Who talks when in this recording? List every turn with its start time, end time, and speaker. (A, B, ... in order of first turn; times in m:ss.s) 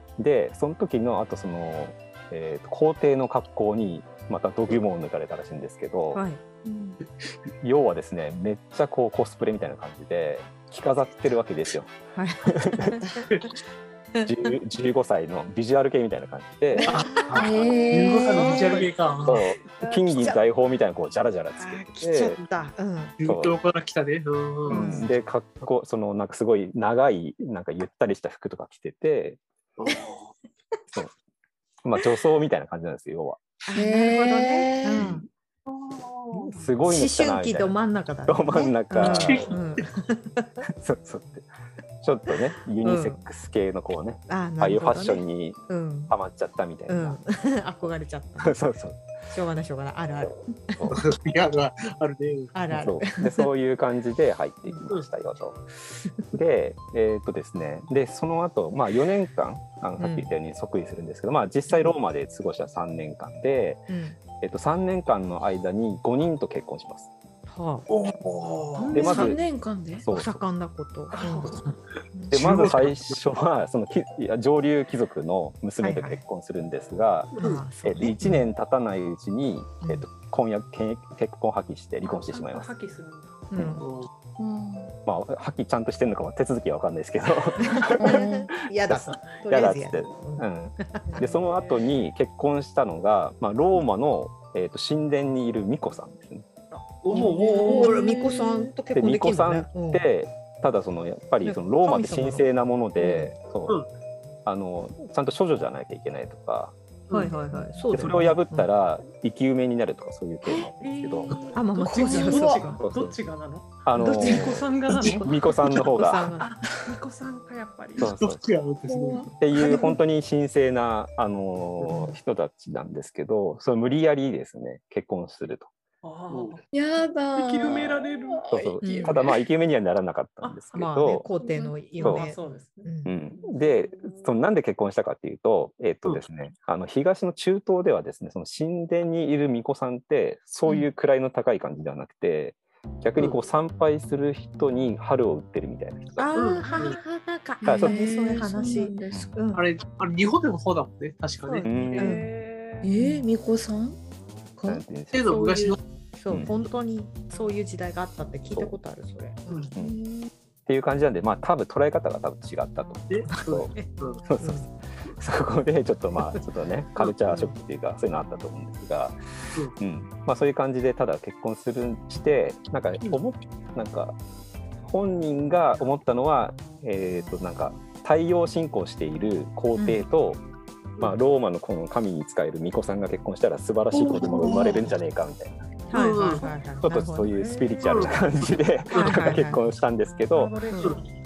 0:00.2-0:06.2 A
0:06.1-0:06.4 B
0:07.6-0:11.9 A
0:12.1-0:13.0 B
0:12.4-0:12.9 A
0:14.1-0:14.5 B
0:14.2-0:16.9 A
0:16.8-0:20.4 B
0:16.9-0:19.4 C
0:17.2-0:18.8 D
0:19.2-0:22.4 A
0:21.6-0:23.1 B
0:23.2-0:25.0 C
0:23.2-0:23.6 A
0:24.7-0:25.1 B
0:24.7-0:29.4 A
0:29.8-0:30.2 C
0:31.8-0:33.4 A
0:33.7-0:35.2 B
0:33.7-0:35.1 D
0:34.9-0:35.3 A
0:35.6-0:36.6 C
0:36.5-0:37.7 A
0:36.8-0:40.6 B
0:38.3-0:39.6 A
0:39.0-0:39.8 C
0:40.7-0:41.5 A
0:42.0-0:45.6 A
0:42.8-0:43.2 B
0:44.3-0:46.1 B
0:46.1-0:47.2 A
0:46.9-0:48.6 B
0:48.4-0:49.0 A
0:49.3-0:51.0 B
0:50.2-0:51.0 A
0:50.9-0:52.5 C
0:52.5-0:53.5 B
0:52.7-0:55.6 A
0:56.3-1:03.8 A
1:00.0-1:00.3 B
1:03.9-1:04.2 B
1:04.4-1:07.1 A
1:07.5-1:07.9 B
1:07.9-1:09.0 C
1:08.8-1:09.3 E
1:08.9-1:09.4 A
1:08.9-1:10.1 D
1:10.0-1:10.3 A
1:10.1-1:12.6 B
1:11.2-1:11.6 C
1:12.3-1:13.2 C
1:12.3-1:17.3 A
1:15.8-1:16.2 B
1:17.3-1:17.6 C
1:17.4-1:18.5 B
1:17.8-1:22.7 A
1:22.0-1:23.5 E
1:23.5-1:23.9 B
1:23.6-1:23.8 A
1:23.8-1:24.1 C
1:24.4-1:24.9 D
1:25.0-1:28.3 A
1:27.6-1:31.3 B
1:28.0-1:28.5 D
1:28.9-1:36.4 A
1:31.1-1:31.9 E
1:37.0-1:38.0 C
1:37.1-1:40.0 B
1:37.2-1:38.1 D
1:38.9-1:43.8 A
1:41.4-1:43.3 B
1:44.4-1:46.7 A
1:47.1-1:48.7 B
1:47.9-1:51.4 A
1:50.8-1:55.8 E
1:51.5-1:52.8 B
1:51.8-1:52.6 D
1:52.8-1:53.1 A
1:53.8-1:56.4 A
1:54.0-1:54.4 B
1:55.2-1:56.9 B
1:56.4-1:58.1 E
1:58.0-1:58.4 A
1:58.0-1:59.4 C
1:58.9-1:59.8 D
1:59.4-2:05.7 A
1:59.6-1:59.9 B
2:06.0-2:06.6 E
2:06.3-2:06.6 C
2:06.7-2:09.4 D
2:07.3-2:08.5 E
2:08.5-2:11.3 A
2:08.8-2:09.2 B
2:10.4-2:14.4 E
2:10.7-2:13.1 B
2:12.0-2:12.2 A
2:13.0-2:26.3 A
2:26.2-2:29.6 B
2:26.3-2:27.0 C
2:27.6-2:29.4 D
2:27.6-2:27.9 A
2:29.1-2:29.3 A
2:29.5-2:31.7 C
2:31.5-2:32.3 B
2:31.6-2:32.2 A
2:31.7-2:32.9 E
2:32.8-2:34.0 D
2:33.0-2:33.2 B
2:34.6-2:34.8 D
2:34.6-2:35.4 A
2:35.1-2:35.8 C
2:35.2-2:39.6 B
2:36.3-2:36.5 A
2:39.8-2:40.3 D
2:40.7-2:43.7 A
2:43.1-2:44.2 C
2:44.3-2:49.2 A
2:44.4-2:44.7 B
2:47.3-2:47.5 B
2:49.8-2:54.2 A
2:54.8-3:00.4 A
2:59.8-3:00.0 B
3:01.0-3:05.6 A
3:03.9-3:04.8 C
3:05.9-3:07.3 B
3:05.9-3:06.4 C
3:06.8-3:10.6 A
3:07.3-3:08.1 E
3:07.8-3:08.2 C
3:08.9-3:09.7 B
3:09.2-3:09.6 E
3:10.3-3:11.1 E
3:10.7-3:11.0 B